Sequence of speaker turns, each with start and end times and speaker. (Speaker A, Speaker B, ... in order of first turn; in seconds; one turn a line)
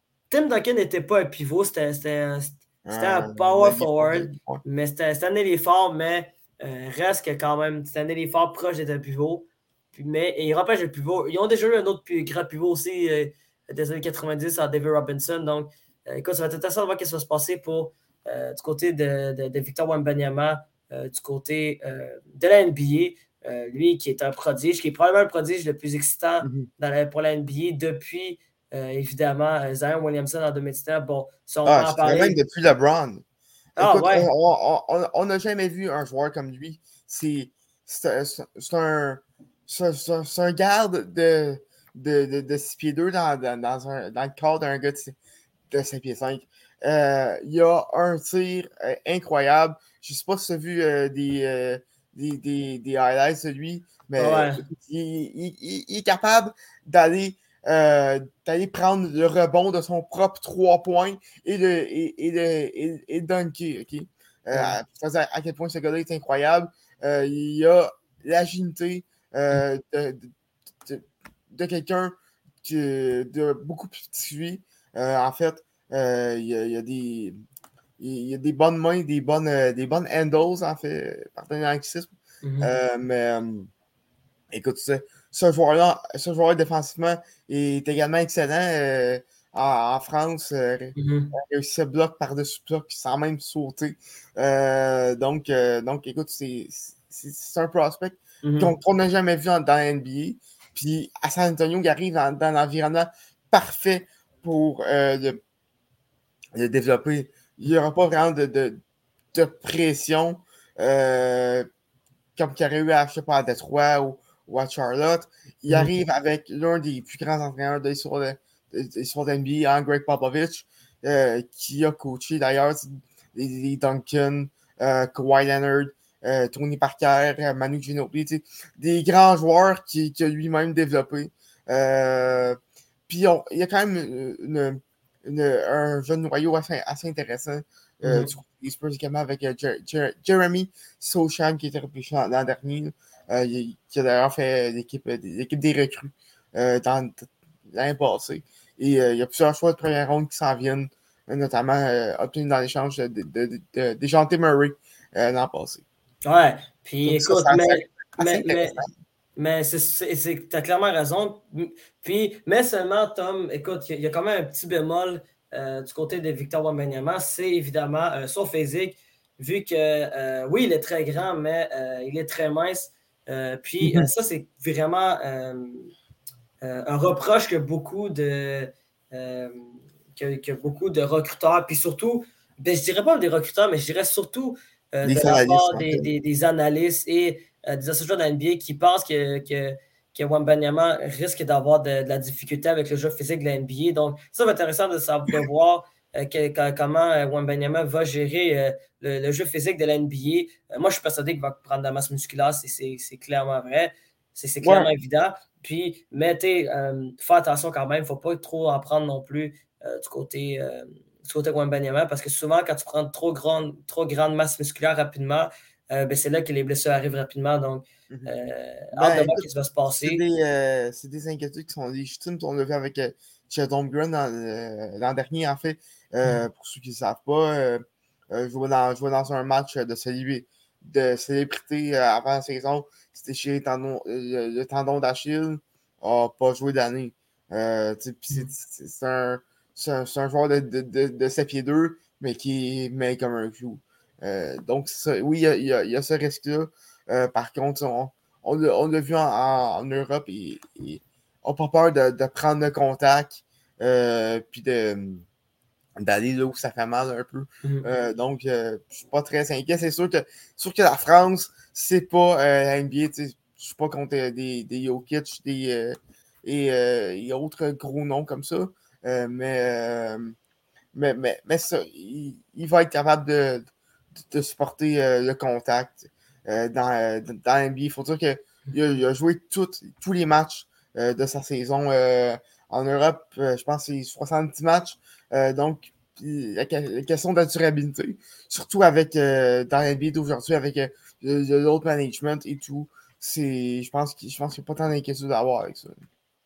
Speaker A: 0.3-32.4
Speaker B: 2.8-4.6
Speaker B: 26.4-26.7
Speaker B: 31.6-33.2
Speaker A: 33.8-34.3
Speaker B: 33.8-45.1
Speaker B: 45.7-70.3
Speaker A: 54.2-54.6
Speaker A: 64.5-64.8
Speaker B: 70.8-77.4
Speaker B: 78.0-83.7
Speaker A: 82.4-82.7
Speaker B: 84.5-105.4
Speaker A: 91.0-91.3
Speaker A: 98.4-98.7
Speaker B: 106.5-108.8
Speaker B: 109.3-111.7
Speaker B: 112.3-132.6
Speaker A: 115.7-115.9
Speaker B: 133.1-155.8
Speaker A: 138.0-138.3
Speaker A: 156.2-158.8
Speaker B: 157.0-158.9
Speaker A: 159.3-175.9
Speaker B: 173.8-174.1
Speaker A: 176.6-220.2
Speaker B: 185.0-186.1
Speaker B: 204.6-204.9
Speaker B: 218.9-219.4
Speaker B: 220.0-255.2
Speaker B: 256.0-270.3
Speaker B: 270.9-273.7
Speaker B: 274.2-296.0